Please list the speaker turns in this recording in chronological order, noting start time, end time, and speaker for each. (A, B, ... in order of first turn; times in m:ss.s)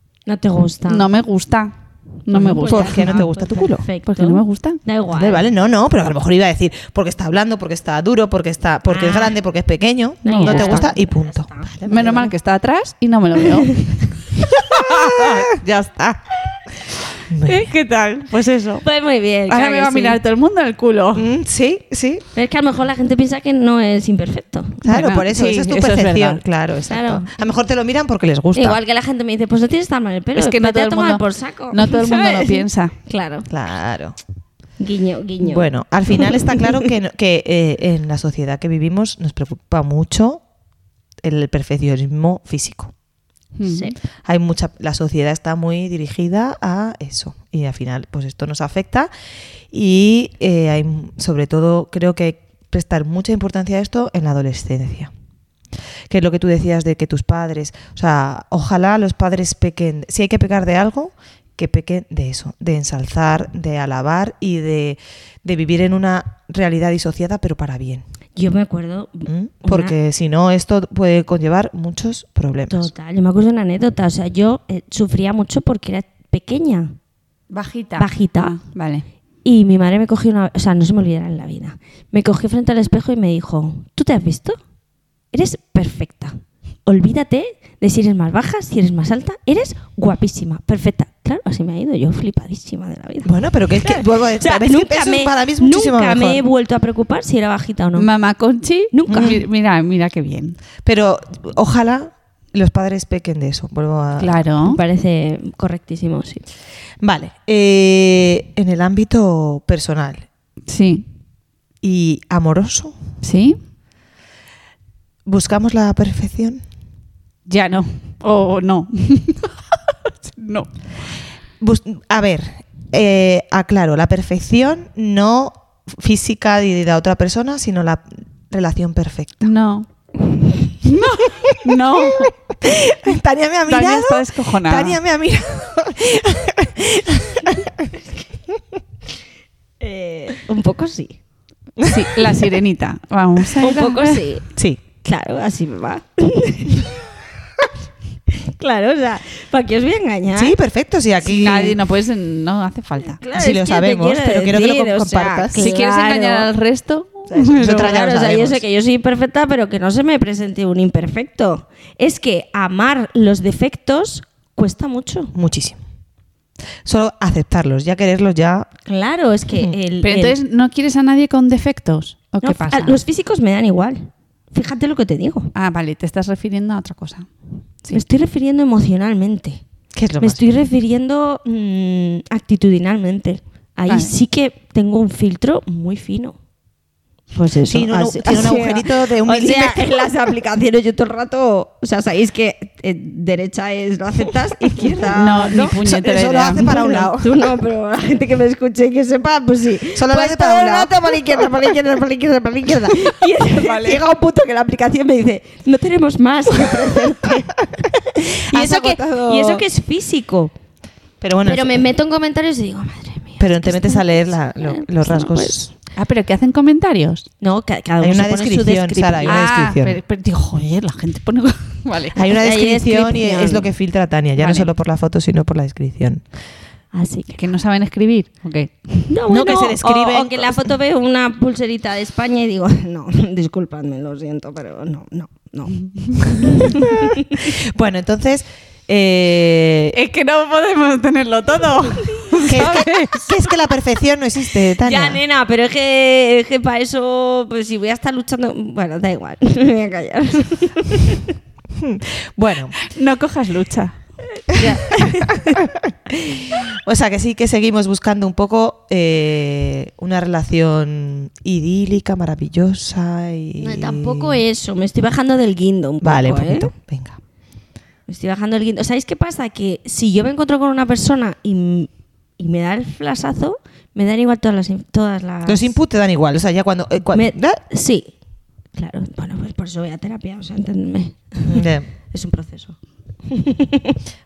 0:00.2-0:01.1 A
0:00.9-0:01.7 B
0:02.2-0:03.3 B
0:02.3-0:05.5 A
0:02.6-0:03.8 C
0:04.0-0:04.8 B
0:05.1-0:12.2 C
0:08.9-0:09.4 A
0:10.2-0:12.3 A
0:10.2-0:10.9 B
0:11.8-0:13.8 B
0:14.5-0:16.2 B
0:17.3-0:17.7 C
0:17.4-0:18.8 B
0:18.8-0:20.2 A
0:19.5-0:21.3 B
0:21.1-0:22.2 C
0:22.3-0:24.8 A
0:24.8-0:28.8 C
0:24.8-0:26.4 B
0:26.9-0:27.3 A
0:28.5-0:33.5 A
0:30.4-0:32.9 B
0:33.5-0:34.2 C
0:34.8-0:36.8 A
0:35.4-0:40.4 C
0:41.2-0:42.9 C
0:43.6-0:43.9 B
0:43.6-0:44.0 A
0:44.2-0:49.1 C
0:49.7-0:55.1 C
0:56.1-1:08.0 C
1:08.4-1:09.9 A
1:09.3-1:12.9 C
1:12.7-1:16.9 A
1:17.5-1:19.0 B
1:18.0-1:18.6 A
1:19.4-1:24.6 A
1:25.3-1:38.1 A
1:33.2-1:36.4 C
1:38.0-1:40.6 B
1:38.9-1:39.4 A
1:39.1-1:39.4 C
1:40.8-1:44.4 C
1:44.2-1:44.8 B
1:44.6-1:46.4 A
1:47.0-1:50.3 C
1:50.7-1:51.0 B
1:51.8-1:53.0 C
1:53.2-1:53.6 B
1:55.2-1:56.6 C
1:57.5-1:59.6 B
2:00.2-2:00.7 B
2:01.6-2:09.5 C
2:09.4-2:09.9 B
2:10.8-2:12.3 B
2:11.4-2:11.7 C
2:12.2-2:17.9 C
2:13.7-2:15.0 B
2:19.8-2:21.2 A
2:21.8-2:22.1 C
2:21.9-2:24.2 B
2:23.6-2:24.5 A
2:24.5-2:24.8 C
2:25.0-2:27.1 A
2:28.3-2:30.5 A
2:30.3-2:31.8 C
2:31.2-2:33.2 B
2:33.1-2:36.5 A
2:33.3-2:35.6 C
2:35.6-2:38.0 B
2:37.3-2:38.6 C
2:37.6-2:45.3 A
2:45.3-2:45.8 C
2:46.8-2:48.7 C
2:48.8-2:50.4 A
2:50.0-2:53.0 B
2:52.4-2:55.5 A
2:55.5-2:57.3 B
2:57.9-2:59.6 A
2:59.9-3:00.6 C
3:00.2-3:06.4 A
3:03.9-3:04.1 B
3:07.3-3:15.8 A
3:07.7-3:10.0 C
3:14.7-3:17.3 C
3:15.1-3:17.0 B
3:16.6-3:30.5 A
3:19.9-3:21.2 C
3:28.5-3:29.6 C
3:31.2-3:31.9 C
3:31.4-3:35.7 A
3:33.4-3:35.7 C
3:35.9-3:37.3 B
3:37.4-3:39.5 A
3:38.0-3:40.0 C
3:39.2-3:42.2 B
3:42.1-3:46.2 C
3:42.4-3:43.7 A
3:44.4-3:44.7 B
3:46.9-3:47.4 A
3:47.3-3:49.1 B
3:49.1-3:57.5 A
3:49.3-3:50.7 C
3:55.8-3:56.4 B
3:57.3-4:00.0 C
3:59.9-4:03.3 B
4:02.5-4:05.2 C
4:04.8-4:11.3 A
4:11.8-4:12.7 C
4:12.8-4:14.0 B
4:14.5-4:15.5 A
4:15.6-4:24.4 C
4:23.6-4:26.7 A
4:26.0-4:27.2 C
4:28.1-4:35.7 A
4:35.4-4:37.6 C
4:37.1-4:38.1 A
4:38.8-4:44.0 A
4:41.4-4:41.9 C